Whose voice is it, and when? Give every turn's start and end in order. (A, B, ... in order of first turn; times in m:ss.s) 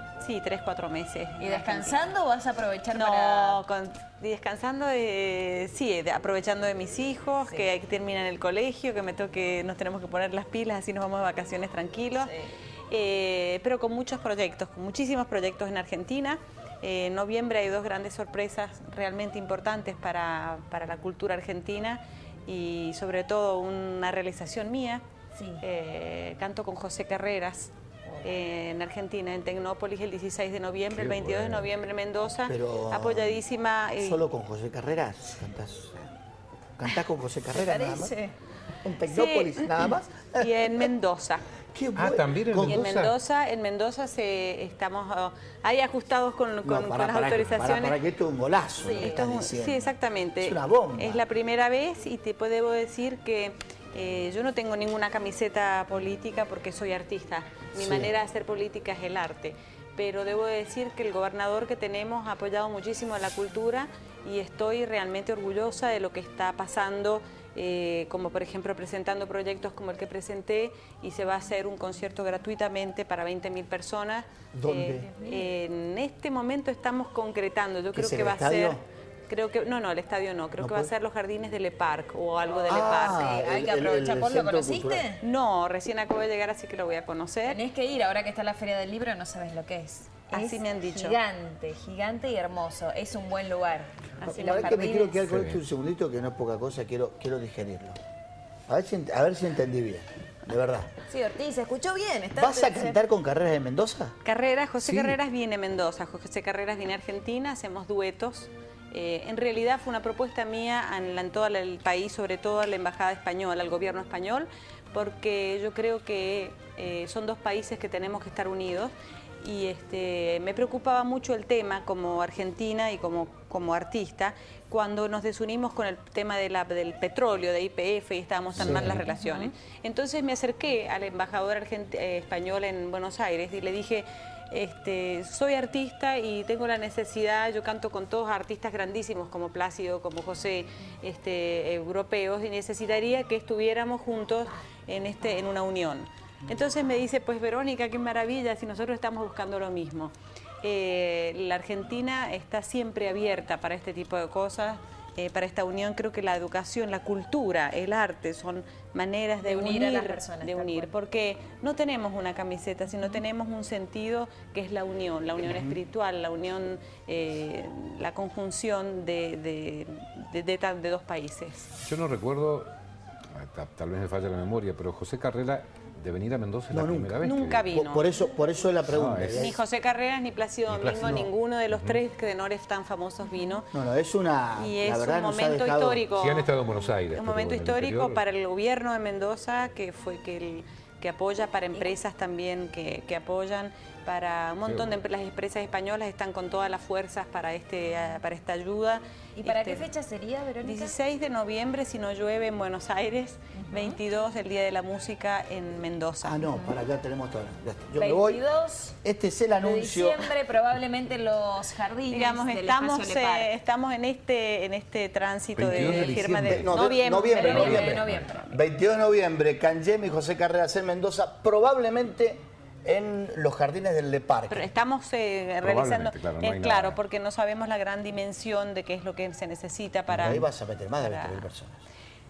0:00.2-0:02.1 A
0:01.4-0:03.6 B
0:02.9-0:12.3 A
0:12.2-0:12.5 B
0:12.9-0:25.0 A
0:25.4-0:25.6 B
0:25.6-0:27.7 A
0:28.2-0:34.2 A
0:30.9-0:31.7 C
0:32.5-0:33.4 D
0:34.0-0:36.1 D
0:36.8-0:38.1 D
0:37.5-0:38.3 B
0:38.8-0:40.9 D
0:39.1-0:39.7 A
0:40.4-0:41.5 A
0:41.7-0:42.8 D
0:42.0-0:43.1 C
0:42.6-0:48.0 A
0:46.6-0:49.9 D
0:48.8-0:49.3 B
0:49.0-1:23.4 A
0:50.4-0:51.2 D
0:57.8-0:58.1 D
1:14.5-1:15.1 D
1:17.9-1:18.8 D
1:20.6-1:20.9 D
1:22.6-1:25.1 D
1:22.8-1:25.2 B
1:25.2-1:27.6 A
1:27.5-1:35.2 B
1:30.3-1:31.2 A
1:34.2-1:34.9 A
1:34.3-1:38.0 D
1:35.2-1:35.6 C
1:38.7-1:40.9 D
1:41.1-1:43.0 B
1:42.4-1:44.2 D
1:44.2-2:51.7 A
1:44.8-1:45.2 C
2:08.6-2:09.0 D
2:08.9-2:09.5 B
2:39.4-2:40.9 B
2:45.4-2:45.8 D
2:51.8-2:52.7 C
2:53.3-2:57.7 C
2:56.7-2:59.6 D
2:57.2-2:58.1 A
2:58.9-2:59.6 C
2:59.3-3:03.7 A
3:00.7-3:02.0 C
3:03.7-3:06.0 D
3:04.6-3:06.5 A
3:06.1-3:08.2 C
3:07.1-3:19.9 A
3:14.6-3:15.0 C
3:19.4-3:21.0 B
3:20.6-3:26.4 A
3:23.6-3:24.0 B
3:26.2-3:28.4 D
3:26.5-3:26.8 B
3:28.0-3:29.0 B
3:29.0-3:30.3 D
3:29.6-3:33.5 B
3:32.1-3:38.3 A
3:35.6-3:36.9 C
3:35.6-3:44.7 D
3:37.2-3:38.5 B
3:37.6-3:38.3 C
3:44.5-3:51.5 A
3:45.6-3:47.0 C
3:50.1-3:51.8 D